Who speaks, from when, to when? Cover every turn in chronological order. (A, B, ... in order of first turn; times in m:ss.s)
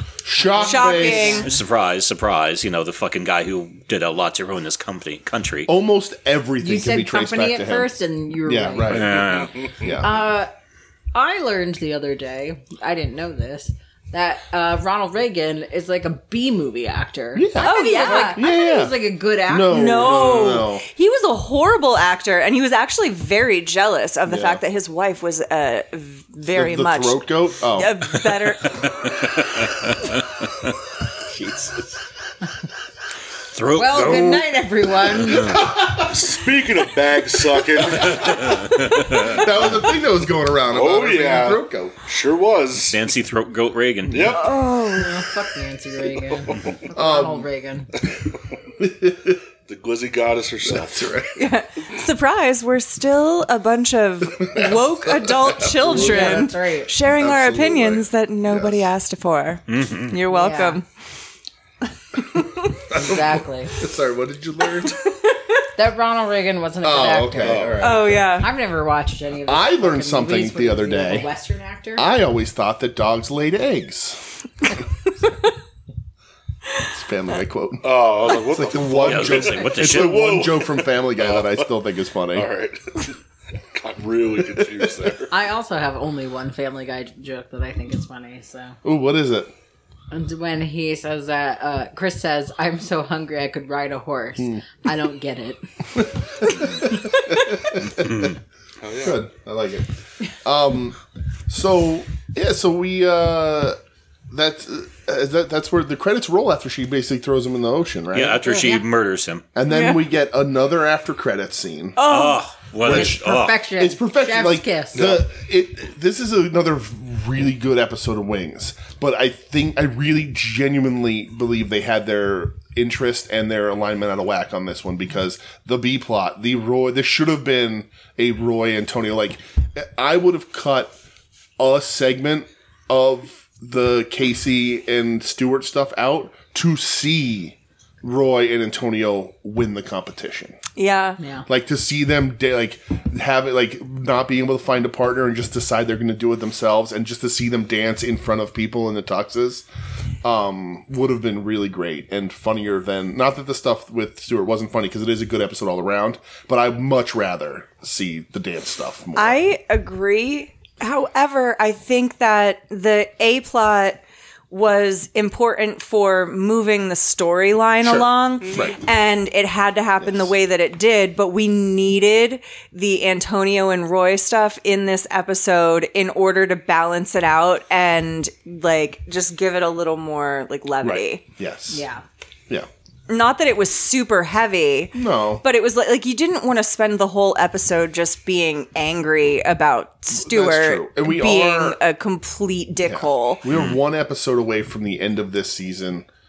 0:00.2-0:01.4 A
0:00.5-0:01.5 B
0:00.6-0:01.5 C
0:01.4-0:05.7 D
0:05.7-0:07.9 A
0:06.6-0:09.1 B
0:08.4-0:10.2 A
0:08.9-0:09.5 D
0:09.2-0:09.9 E
0:10.0-0:10.5 B
0:11.1-0:20.2 B
0:17.4-0:20.9 A
0:17.6-0:18.4 C
0:19.7-0:28.9 C
0:24.3-0:24.6 A
0:26.5-0:28.2 A
0:29.0-0:29.7 D
0:31.2-0:32.0 A
0:33.5-0:34.5 D
0:33.7-0:35.7 B
0:35.3-0:36.3 A
0:36.0-0:38.6 E
0:38.0-0:42.0 A
0:38.2-0:39.4 D
0:40.7-0:43.0 E
0:42.9-0:44.4 D
0:44.1-0:44.5 E
0:44.3-0:45.2 C
0:44.9-0:47.9 B
0:46.5-0:46.8 E
0:46.9-0:47.5 A
0:48.8-0:49.4 A
0:49.7-0:51.2 E
0:50.7-0:51.3 A
0:51.4-1:00.9 C
0:54.4-0:56.5 A
0:55.8-0:56.9 B
0:57.0-0:58.9 A
0:59.7-1:00.2 D
1:00.3-1:00.8 B
1:02.9-1:03.8 B
1:02.9-1:05.0 A
1:05.8-1:12.1 B
1:06.8-1:08.3 A
1:07.4-1:08.0 E
1:07.8-1:08.5 C
1:09.5-1:11.3 A
1:12.0-1:14.2 A
1:16.8-1:22.5 A
1:17.8-1:21.7 E
1:19.0-1:20.2 D
1:22.3-1:23.2 E
1:23.7-1:25.3 E
1:24.6-1:24.8 A
1:25.3-1:28.8 B
1:28.8-1:29.5 A
1:30.1-1:36.9 B
1:36.0-1:38.4 A
1:38.8-1:39.2 E
1:39.0-1:43.8 A
1:44.3-1:48.6 A
1:48.1-1:49.4 D
1:48.5-1:48.8 B
1:49.6-1:52.1 A
1:49.7-1:50.0 C
1:52.0-1:52.4 C
1:52.0-1:53.6 D
1:52.8-2:11.0 A
1:52.8-1:55.1 B
1:55.0-1:55.2 E
2:11.6-2:20.6 A
2:20.8-2:21.2 C
2:21.2-2:21.5 B
2:21.5-2:29.7 A
2:30.2-2:39.4 A
2:39.2-3:01.2 C
2:47.8-2:48.8 A
2:50.0-2:50.3 A
3:00.8-3:01.8 A
3:01.7-3:02.0 B
3:03.1-3:13.4 C
3:04.9-3:05.4 A
3:10.1-3:11.8 A
3:12.9-3:16.1 A
3:13.5-3:13.8 D